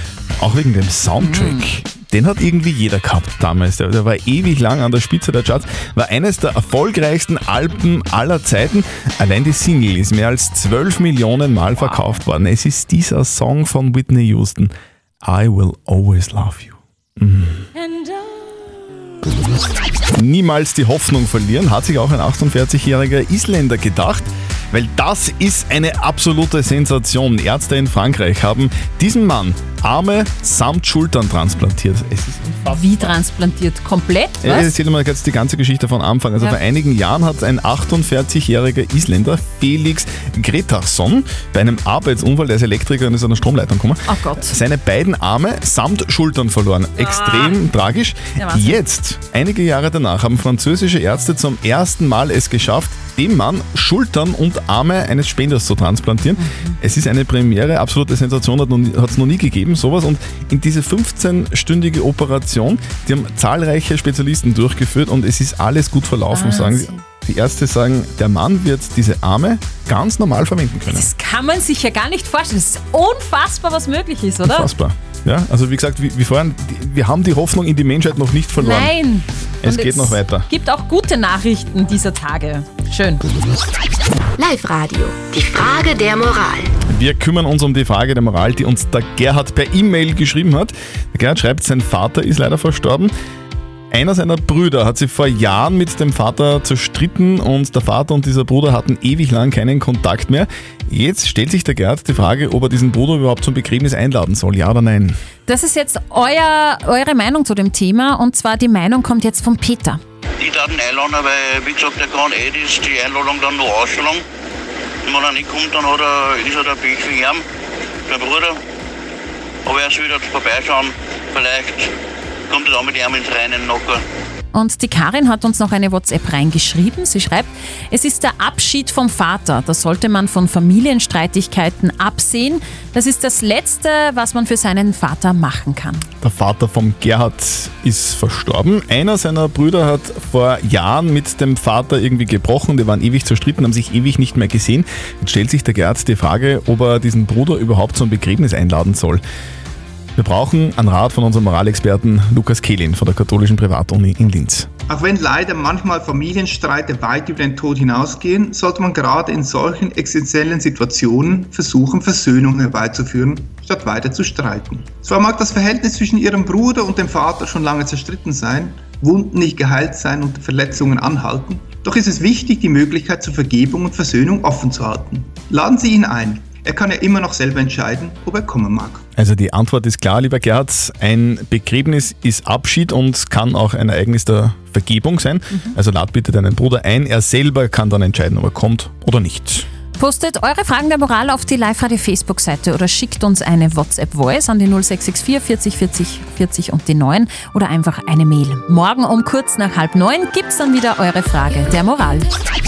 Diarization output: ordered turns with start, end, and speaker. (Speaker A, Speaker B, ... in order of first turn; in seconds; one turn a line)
Speaker A: 0.4-17.7
Speaker B: 1.2-1.6
Speaker B: 11.8-12.2
Speaker A: 20.1-33.1
Speaker B: 32.7-34.7
Speaker A: 34.4-71.1
Speaker B: 44.1-44.6
Speaker B: 47.0-47.6
Speaker B: 48.4-48.8
Speaker B: 56.4-56.8
Speaker B: 66.3-67.0
Speaker B: 70.9-74.7
Speaker A: 74.5-79.0
Speaker B: 78.5-83.2
Speaker A: 79.6-80.5
Speaker C: 84.4-86.7
Speaker A: 86.9-93.1
Speaker A: 93.9-105.2
Speaker B: 105.5-110.0
Speaker D: 110.4-114.2
Speaker D: 115.0-117.4
Speaker D: 118.1-118.6
Speaker D: 119.7-121.9
Speaker D: 122.5-124.0
Speaker B: 124.5-136.1
Speaker A: 136.2-149.2
Speaker A: 150.2-154.7
Speaker E: 154.9-179.0
Speaker A: 179.2-189.7
Speaker B: 190.0-202.3